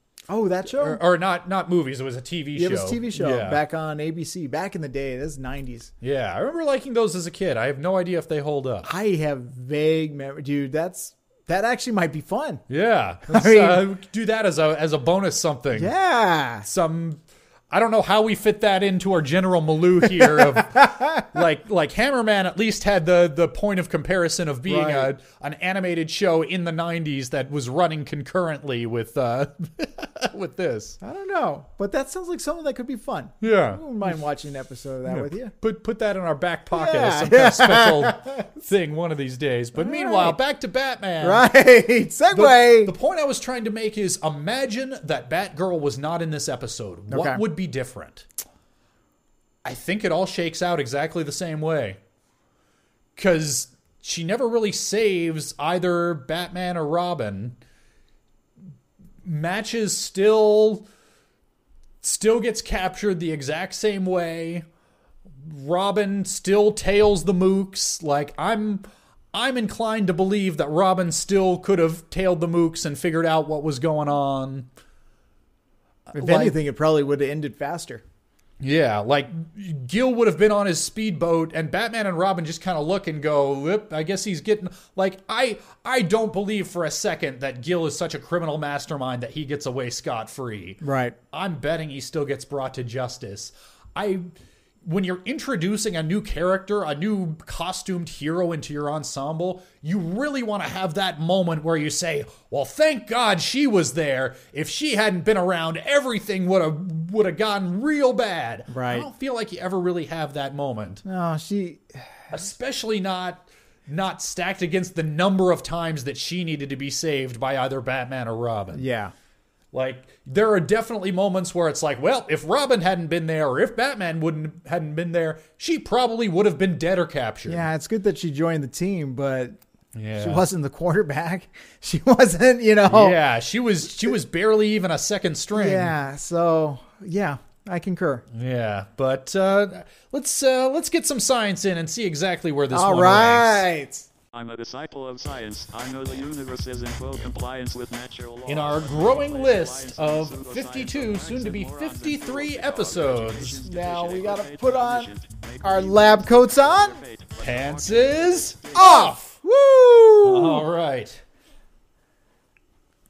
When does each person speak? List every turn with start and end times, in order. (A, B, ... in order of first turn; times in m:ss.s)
0:00.3-0:01.0 A
0:00.7-0:03.6 B
0:02.6-0:05.9 A
0:06.0-0:08.9 B
0:08.8-0:12.6 A
0:12.7-0:15.9 B
0:13.3-0:13.8 A
0:15.7-0:16.7 A
0:16.6-0:31.0 B
0:20.4-0:21.2 A
0:24.7-0:25.1 A
0:31.0-0:35.5 A
0:33.4-0:34.2 B
0:35.0-0:41.4 B
0:36.7-0:38.5 A
0:39.8-0:40.4 A
0:41.2-0:42.9 A
0:42.3-0:48.3 B
0:47.1-0:47.4 A
0:49.6-0:52.0 B
0:53.2-0:57.6 B
0:59.2-1:00.9 B
1:02.0-1:04.6 B
1:05.4-1:14.7 B
1:16.1-1:16.6 B
1:16.1-1:18.0 A
1:18.6-1:30.8 B
1:30.8-1:31.2 A
1:31.3-1:34.3 B
1:34.8-1:51.0 B
1:48.7-1:49.1 A
1:51.0-1:52.0 A
1:52.3-1:58.8 B
1:58.7-1:59.1 A
1:59.7-2:07.7 B
2:07.5-2:09.6 A
2:09.9-2:10.4 B
2:10.2-2:13.2 A
2:12.9-2:15.9 B
2:15.5-2:18.2 A
2:18.3-2:23.6 B
2:22.7-2:24.0 A
2:24.3-2:39.0 C
2:28.4-2:33.6 B
2:33.6-2:35.1 A
2:35.6-2:37.0 A
2:37.4-2:39.3 B
2:38.7-2:40.6 A
2:40.2-2:41.2 B